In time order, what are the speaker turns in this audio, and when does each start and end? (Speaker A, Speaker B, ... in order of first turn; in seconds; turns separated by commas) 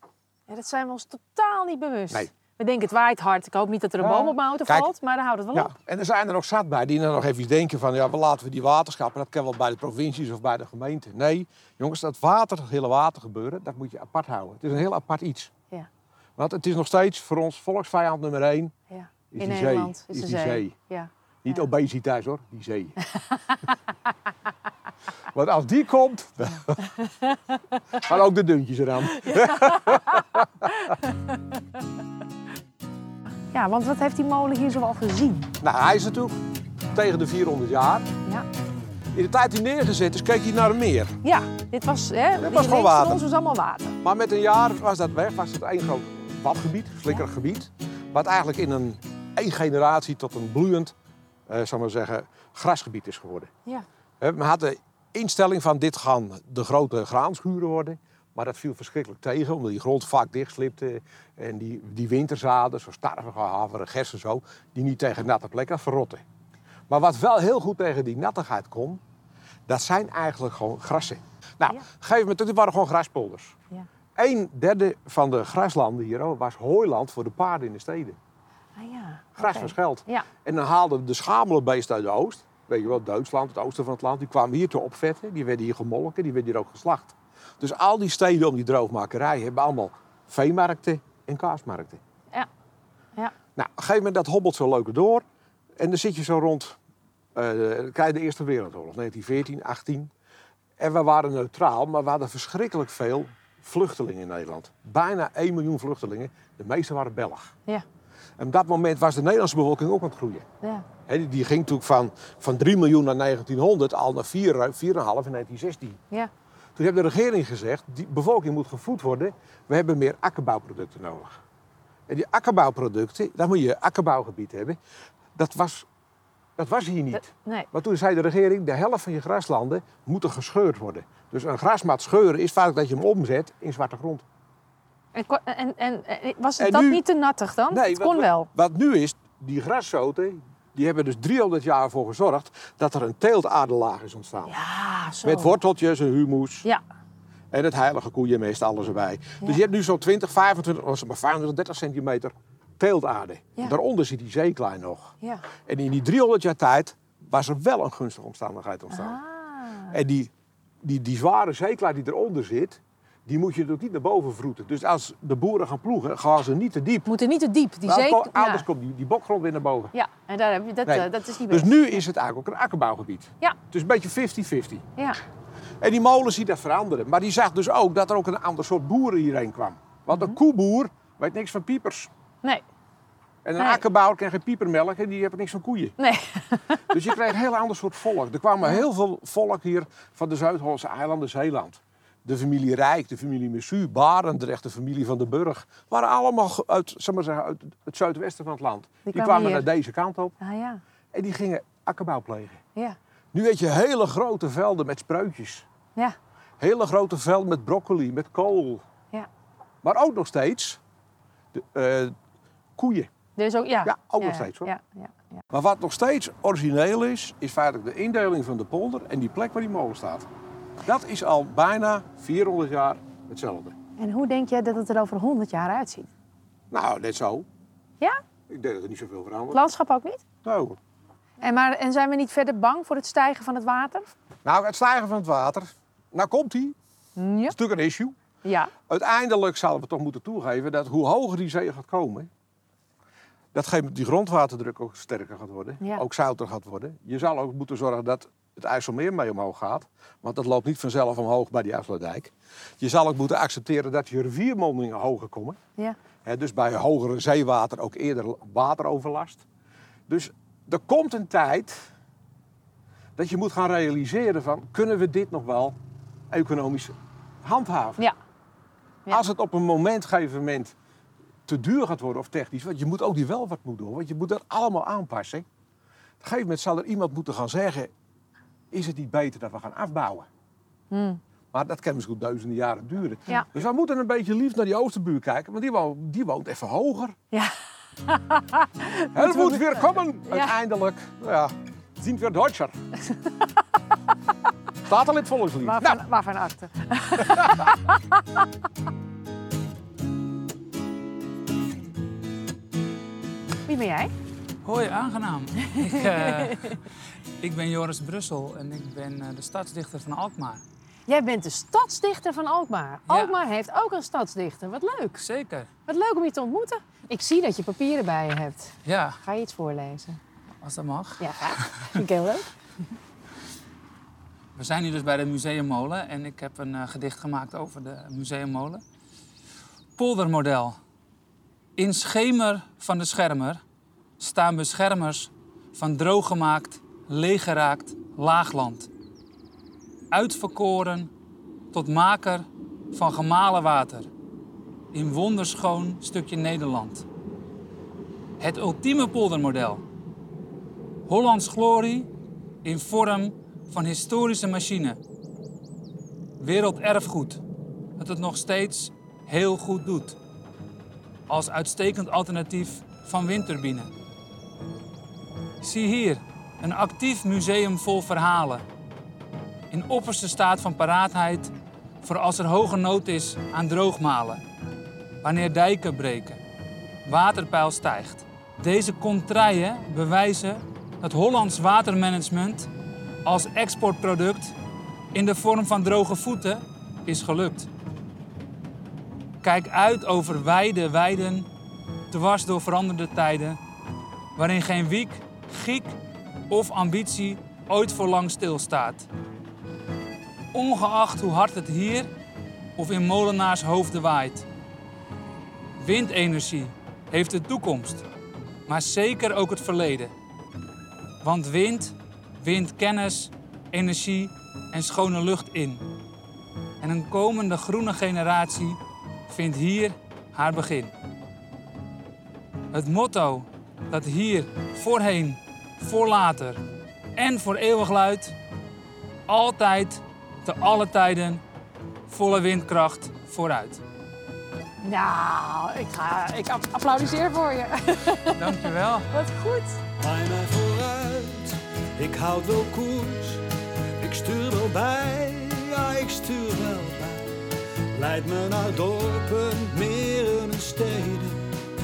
Speaker A: 0.5-5.7, Speaker B: 4.0-4.9, Speaker B: 5.5-15.5, Speaker B: 16.4-18.7, Speaker A: 18.9-21.6, Speaker B: 19.3-20.7, Speaker B: 21.4-23.0, Speaker A: 23.1-23.4, Speaker B: 25.3-26.9, Speaker B: 27.9-30.4, Speaker A: 29.9-30.2, Speaker A: 30.9-31.1, Speaker A: 33.5-35.5, Speaker B: 35.6-36.4, Speaker B: 36.9-38.1, Speaker B: 39.1-41.1, Speaker A: 41.2-44.0, Speaker B: 42.4-43.2, Speaker B: 44.0-50.9, Speaker B: 51.5-53.5, Speaker B: 54.2-66.2, Speaker B: 66.9-69.0, Speaker B: 69.7-73.5, Speaker B: 74.2-78.2, Speaker A: 78.8-80.3, Speaker B: 79.4-92.0, Speaker B: 93.5-95.2, Speaker B: 95.8-96.7, Speaker B: 97.3-100.1, Speaker B: 100.8-107.5, Speaker B: 108.4-110.5, Speaker B: 111.0-116.0, Speaker B: 116.8-121.3, Speaker B: 122.1-124.8, Speaker B: 125.3-125.8, Speaker B: 126.6-134.2, Speaker A: 127.1-127.7, Speaker A: 135.1-138.5, Speaker B: 136.6-137.0, Speaker B: 137.7-144.5, Speaker A: 144.4-145.6, Speaker B: 145.2-146.7, Speaker B: 147.5-159.2, Speaker A: 158.9-160.0, Speaker B: 159.9-160.3, Speaker B: 160.8-167.1, Speaker A: 167.1-168.7, Speaker B: 167.8-169.9, Speaker A: 169.9-172.0, Speaker B: 170.8-174.8, Speaker B: 175.8-182.1, Speaker A: 180.1-180.3, Speaker B: 183.4-185.9, Speaker A: 183.6-183.8, Speaker A: 186.0-186.9, Speaker B: 186.9-200.3, Speaker A: 199.1-199.7, Speaker A: 200.4-200.8, Speaker B: 201.1-202.6, Speaker B: 203.3-205.7, Speaker B: 206.6-208.8, Speaker B: 209.8-210.8, Speaker B: 211.5-212.1, Speaker B: 212.8-213.1, Speaker A: 213.3-215.4, Speaker B: 213.8-214.7, Speaker B: 215.5-220.3, Speaker B: 220.8-223.7, Speaker A: 224.0-226.1, Speaker B: 226.7-227.5, Speaker B: 228.5-229.6, Speaker A: 229.5-230.2, Speaker B: 230.4-230.8, Speaker A: 231.4-234.1, Speaker B: 234.4-236.8, Speaker A: 237.2-237.5, Speaker B: 237.5-238.1, Speaker A: 238.4-238.7, Speaker B: 238.9-242.3, Speaker B: 243.5-255.6, Speaker B: 256.2-259.4, Speaker B: 260.1-261.8, Speaker B: 263.2-265.8, Speaker B: 266.3-268.0, Speaker B: 269.1-270.7, Speaker B: 271.5-275.4, Speaker B: 276.2-277.9, Speaker B: 278.7-280.3, Speaker A: 280.9-281.2, Speaker B: 281.5-287.1, Speaker A: 288.1-290.5, Speaker B: 289.1-292.7, Speaker B: 294.9-296.0, Speaker A: 295.6-298.2, Speaker A: 303.6-304.1, Speaker C: 304.6-306.8, Speaker A: 305.7-306.5, Speaker C: 307.4-310.6, Speaker A: 311.1-315.2, Speaker C: 313.1-313.4, Speaker C: 315.2-315.7, Speaker A: 315.9-320.2, Speaker C: 318.8-319.2, Speaker C: 320.6-322.0, Speaker A: 321.2-322.5, Speaker C: 324.5-328.8, Speaker C: 330.0-330.8, Speaker C: 331.8-333.6, Speaker C: 334.2-338.9, Speaker C: 340.1-341.1, Speaker C: 341.7-344.1, Speaker C: 344.9-347.0, Speaker C: 348.4-349.8, Speaker C: 351.1-352.1, Speaker C: 352.6-355.0, Speaker C: 356.4-357.4, Speaker C: 358.0-360.2, Speaker C: 361.3-363.9, Speaker C: 365.6-368.6, Speaker C: 369.7-374.4, Speaker C: 375.2-376.4, Speaker C: 377.0-382.7, Speaker C: 383.2-384.5, Speaker C: 385.1-387.7, Speaker C: 389.4-391.5, Speaker C: 392.1-393.6, Speaker C: 394.4-396.0, Speaker C: 396.5-399.1, Speaker C: 400.5-402.1, Speaker C: 402.8-404.4, Speaker C: 405.8-408.0, Speaker C: 408.7-410.1, Speaker C: 411.2-415.9, Speaker C: 416.8-420.9, Speaker C: 422.7-426.6, Speaker C: 427.1-428.3, Speaker C: 429.3-431.4, Speaker C: 432.1-433.8, Speaker A: 434.8-438.5, Speaker C: 438.4-439.1, Speaker A: 439.1-439.8, Speaker D: 440.0-451.5